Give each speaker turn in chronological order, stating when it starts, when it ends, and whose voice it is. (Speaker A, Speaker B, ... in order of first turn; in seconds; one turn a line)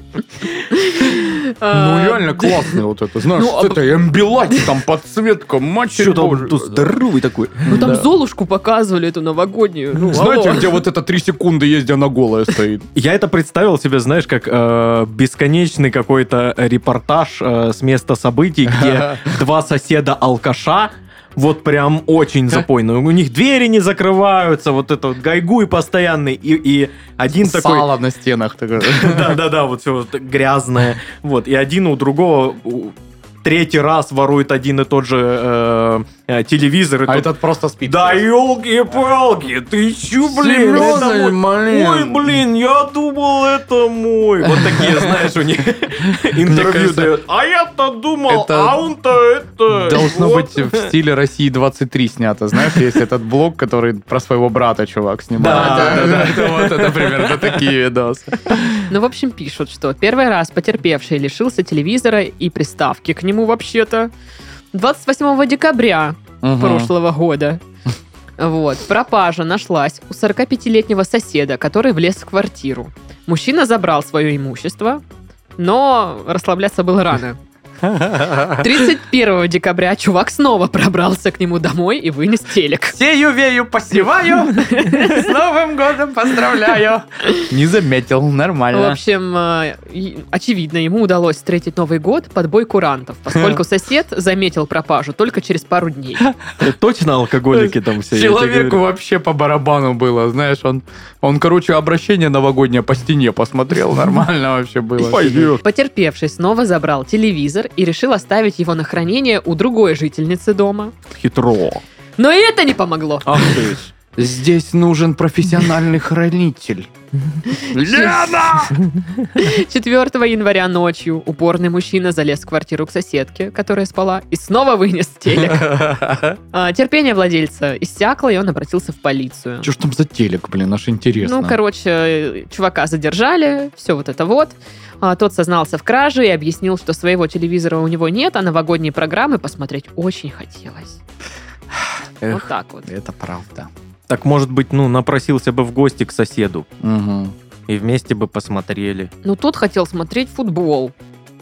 Speaker A: 0.4-2.8
Speaker B: 1.7-7.0
Speaker A: 3.3-4.7
Speaker C: 5.9-8.0
Speaker B: 7.6-8.1
Speaker A: 7.7-10.8
Speaker B: 10.0-12.9
Speaker C: 12.9-27.9
Speaker B: 18.8-19.3
Speaker B: 27.3-29.4
Speaker C: 28.8-37.3
Speaker B: 37.1-38.2
Speaker C: 37.8-50.9
Speaker B: 40.2-42.4
Speaker B: 44.5-45.2
Speaker B: 46.0-47.1
Speaker B: 48.3-48.8
Speaker B: 49.7-58.8
Speaker C: 52.5-52.8
Speaker C: 55.3-57.6
Speaker A: 55.5-56.2
Speaker A: 58.9-64.1
Speaker A: 64.7-67.6
Speaker B: 66.4-66.9
Speaker A: 68.4-75.0
Speaker A: 75.6-77.4
Speaker B: 77.9-78.7
Speaker A: 78.5-83.0
Speaker B: 82.9-89.0
Speaker A: 84.5-85.3
Speaker A: 88.7-96.3
Speaker B: 93.3-93.6
Speaker C: 96.6-98.8
Speaker B: 97.5-105.5
Speaker C: 105.0-105.6
Speaker A: 105.6-111.0
Speaker C: 111.1-111.8
Speaker A: 112.2-113.8
Speaker C: 113.2-113.9
Speaker B: 114.2-116.9
Speaker A: 117.5-118.4
Speaker B: 117.6-118.8
Speaker C: 118.7-119.3
Speaker A: 119.3-126.0
Speaker B: 125.4-126.3
Speaker A: 126.5-129.7
Speaker B: 129.6-131.6
Speaker A: 131.2-141.0
Speaker A: 142.3-142.9
Speaker B: 142.8-143.7
Speaker C: 144.1-146.7
Speaker B: 146.8-147.3
Speaker C: 147.7-149.1
Speaker A: 149.2-150.9